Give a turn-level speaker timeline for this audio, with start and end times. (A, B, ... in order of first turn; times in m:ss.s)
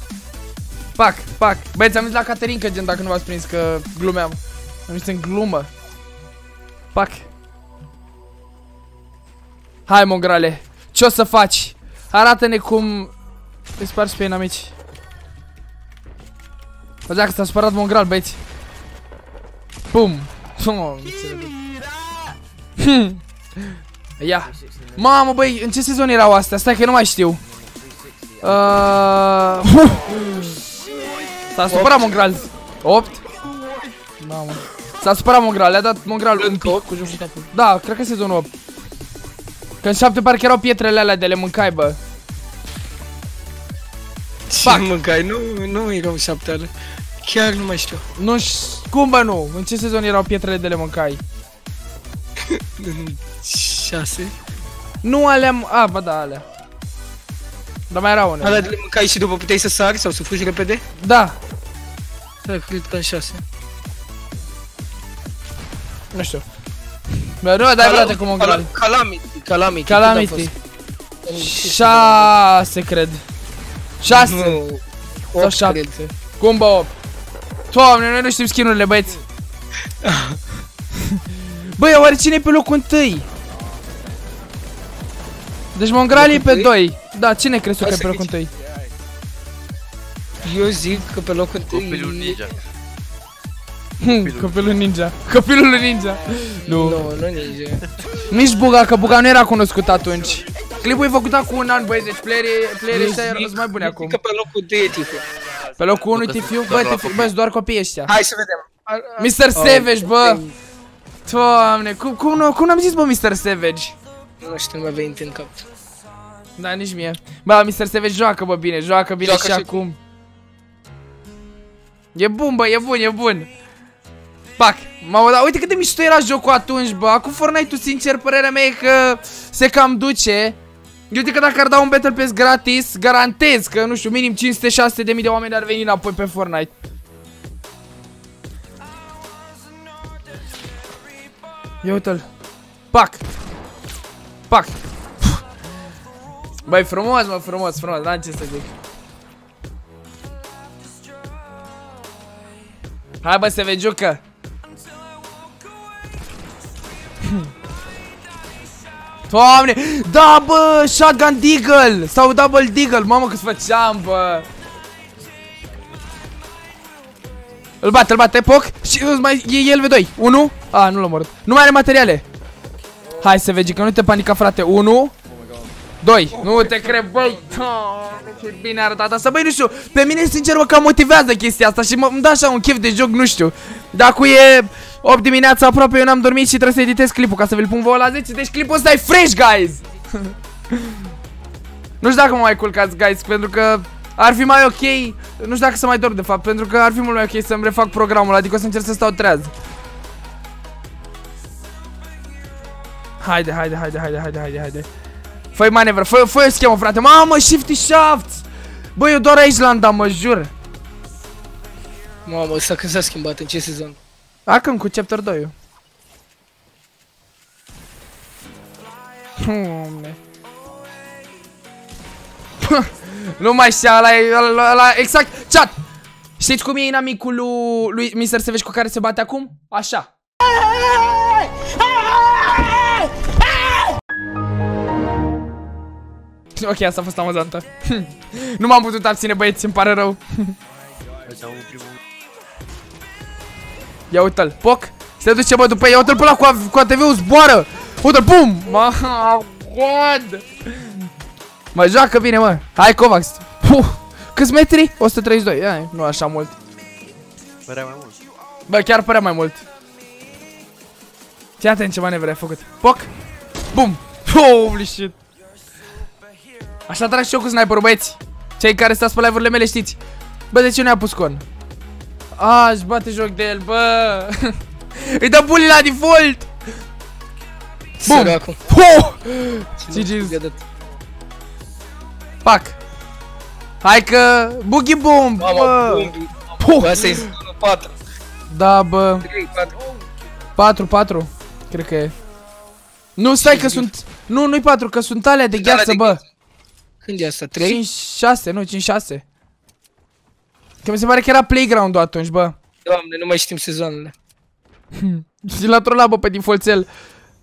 0:01.0-0:05.7 A
0:06.9-0:07.3 A
0:09.9-0:13.1 A
0:13.8-0:14.8 A
0:17.1-0:18.4 A
0:19.9-0:21.6 A
0:22.8-0:23.2 A
0:24.2-0:27.4 A
0:28.4-0:30.6 A
0:31.5-0:33.2 A
0:31.7-0:32.2 B
0:34.2-0:36.9 A
0:36.4-0:37.4 B
0:37.5-0:38.5 A
0:39.8-0:42.0 A
0:44.5-0:46.7 B
0:44.6-0:44.9 A
0:47.2-0:48.0 B
0:48.2-0:51.2 A
0:52.5-0:54.3 B
0:55.0-0:56.4 A
0:57.9-0:58.7 A
0:58.4-1:00.8 B
1:01.0-1:01.4 A
1:02.4-1:03.4 B
1:06.1-1:06.4 A
1:07.4-1:08.7 A
1:07.8-1:10.5 B
1:09.9-1:10.5 A
1:11.2-1:12.3 B
1:11.4-1:13.2 A
1:14.0-1:14.6 A
1:14.0-1:16.1 B
1:15.4-1:15.8 A
1:16.4-1:16.9 A
1:17.7-1:19.2 A
1:20.0-1:20.4 B
1:21.8-1:23.2 A
1:25.8-1:28.5 A
1:26.1-1:26.7 B
1:27.8-1:28.3 B
1:30.4-1:32.4 B
1:31.7-1:32.5 C
1:34.0-1:37.1 A
1:34.2-1:34.6 C
1:36.6-1:37.8 B
1:38.3-1:44.2 A
1:42.9-1:45.2 B
1:45.8-1:48.1 A
1:46.1-1:47.3 C
1:48.1-1:50.5 B
1:49.2-1:50.4 A
1:51.3-1:54.0 A
1:54.4-1:55.6 B
1:56.6-2:00.0 A
1:59.2-1:59.8 B
2:02.1-2:03.5 A
2:04.6-2:10.6 A
2:11.1-2:16.7 A
2:21.8-2:22.3 A
2:22.9-2:23.2 A
2:24.5-2:24.8 A
2:26.6-2:28.7 A
2:33.2-2:34.2 A
2:39.3-2:44.5 A
2:47.8-2:52.2 A
2:53.2-2:55.1 A
2:56.0-3:09.8 A
3:12.0-3:19.5 A
3:23.2-3:24.9 A
3:25.5-3:28.4 A
3:29.0-3:30.5 A
3:32.3-3:34.0 B
3:34.5-3:35.5 A
3:39.4-3:40.2 A
3:42.6-3:45.8 A
3:46.4-3:50.1 A
3:56.6-4:00.5 A
4:01.2-4:02.0 C
4:04.1-4:11.0 A
4:11.7-4:16.5 A
4:17.7-4:18.2 C
4:18.7-4:19.6 A
4:21.6-4:23.1 A
4:23.7-4:25.2 A
4:26.9-4:30.0 A
4:30.5-4:31.4 A
4:32.4-4:36.5 A
4:38.0-4:38.6 B
4:38.1-4:40.4 A
4:39.8-4:40.6 B
4:42.4-4:42.8 A
4:43.8-4:47.2 A
4:45.4-4:47.9 B
4:48.5-4:49.3 A
4:49.2-4:49.8 B
4:50.6-4:52.1 A
4:53.2-4:56.2 A
4:53.4-4:53.9 B
4:55.6-4:56.2 B
4:57.0-4:57.8 B
4:57.6-4:59.2 A
5:00.8-5:02.6 A
5:02.8-5:04.1 B
5:05.0-5:06.9 A